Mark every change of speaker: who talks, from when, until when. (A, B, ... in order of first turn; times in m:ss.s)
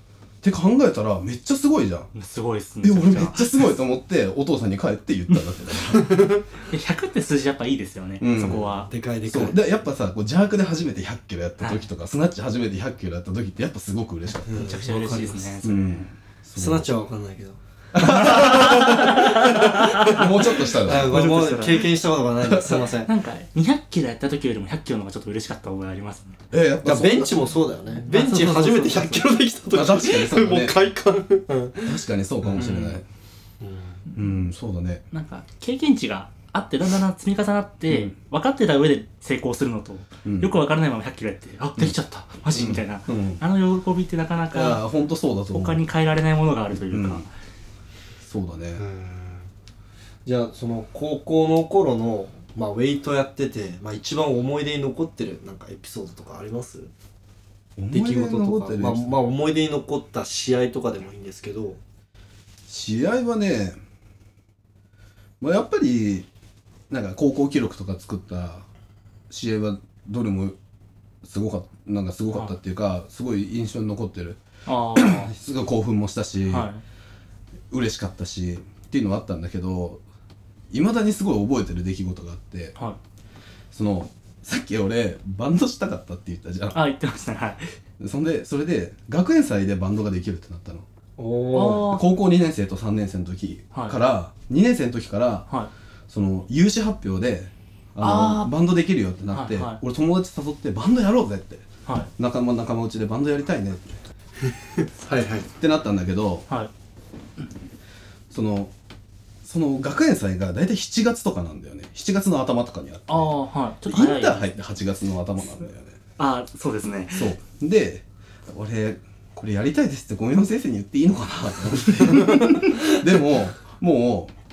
0:00.4-0:02.1 A
0:02.1-0:03.7 B
0:02.8-0:06.2 A
0:06.1-0:06.4 C
0:06.6-0:08.9 B
0:08.2-0:08.7 A
0:08.8-0:09.6 C
0:09.2-0:14.7 A
0:14.4-0:15.5 C
0:14.5-0:16.1 B
0:15.6-0:16.9 A
0:16.6-0:23.1 C
0:17.9-0:21.2 A
0:18.2-0:21.9 B
0:22.7-0:26.4 B
0:26.5-0:27.4 A
0:26.8-0:32.0 C
0:28.0-0:29.3 B
0:29.7-0:30.8 A
0:31.8-0:33.0 A
0:32.5-0:33.0 B
0:33.6-0:34.0 C
0:34.1-0:35.0 A
0:35.1-0:44.8 B
0:40.2-0:40.5 A
0:42.5-0:43.4 A
0:44.5-0:45.8 A
0:45.5-0:47.3 B
0:46.8-0:47.2 A
0:48.2-0:48.8 A
0:48.8-0:49.5 C
0:50.2-0:56.9 C
0:57.8-0:59.1 A
0:57.9-1:01.8 C
1:02.7-1:03.8 A
1:05.4-1:06.3 A
1:06.9-1:08.6 A
1:09.3-1:10.6 A
1:11.2-1:14.4 A
1:14.6-1:15.3 B
1:14.9-1:16.7 A
1:16.5-1:16.8 B
1:17.7-1:20.0 A
1:20.7-1:22.8 A
1:23.7-1:26.8 A
1:26.7-1:27.7 B
1:28.0-1:30.8 A
1:31.2-1:31.9 C
1:31.5-1:32.0 B
1:31.6-1:35.5 A
1:36.1-1:41.7 A
1:38.0-1:38.5 B
1:39.3-1:39.8 B
1:41.8-1:42.1 B
1:42.2-1:43.9 A
1:44.5-1:45.5 C
1:45.6-1:46.4 A
1:48.3-1:48.7 A
1:49.4-1:53.3 A
1:53.1-1:54.5 B
1:53.8-1:56.0 A
1:56.2-1:57.3 B
1:57.1-2:04.3 A